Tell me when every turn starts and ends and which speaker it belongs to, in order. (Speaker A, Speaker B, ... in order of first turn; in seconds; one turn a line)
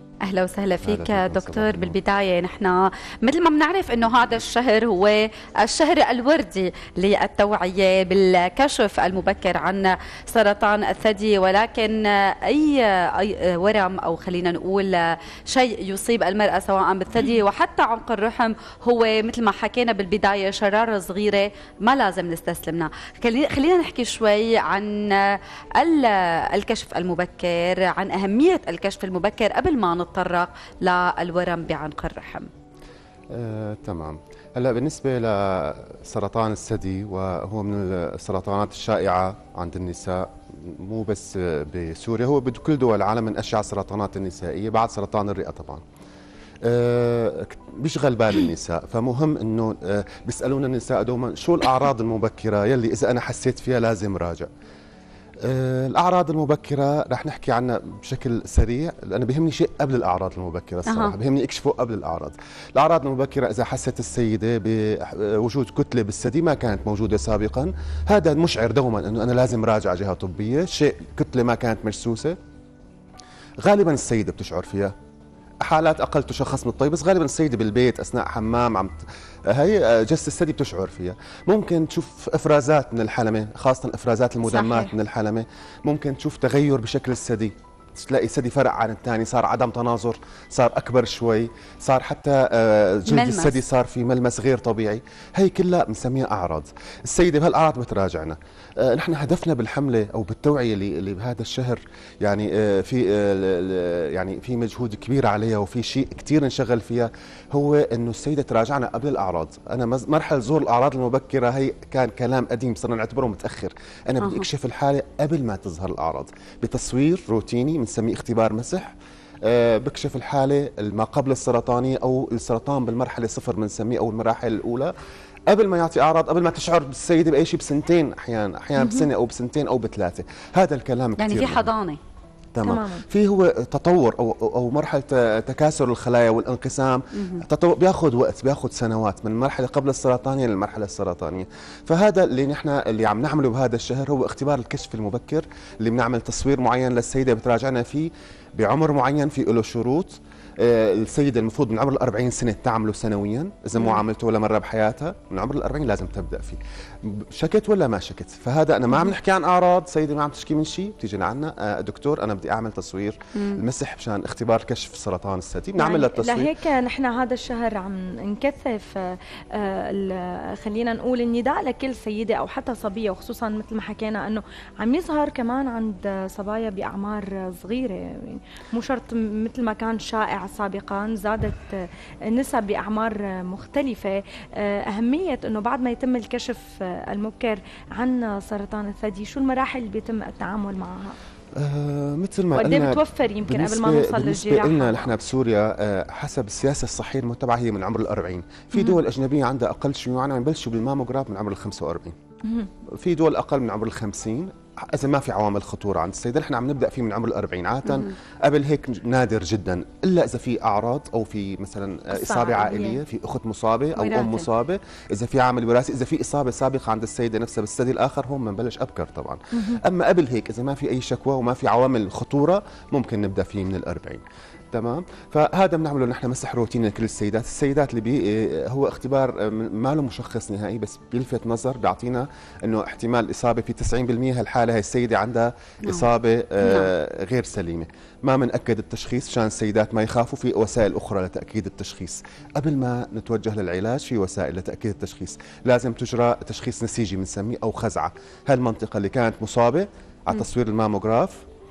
Speaker A: 0.2-32.5
Speaker B: 0.8-2.0
Speaker B: 33.3-45.8
Speaker B: 46.6-54.5
Speaker B: 55.4-72.4
Speaker A: 60.9-61.2
Speaker B: 73.6-74.9
Speaker B: 75.6-124.9
Speaker A: 84.4-84.9
Speaker A: 93.1-93.6
Speaker A: 114.2-114.5
Speaker B: 125.5-131.7
Speaker C: 128.8-129.1
Speaker A: 131.2-132.0
Speaker B: 132.6-166.5
Speaker C: 132.6-133.1
Speaker A: 153.8-154.0
Speaker A: 163.4-163.6
Speaker C: 165.8-191.2
Speaker B: 191.6-202.2
Speaker C: 192.6-195.1
Speaker A: 198.8-199.0
Speaker B: 203.0-251.4
Speaker A: 207.9-208.1
Speaker C: 212.1-213.0
Speaker A: 213.9-214.4
Speaker A: 235.8-236.1
Speaker A: 236.6-236.9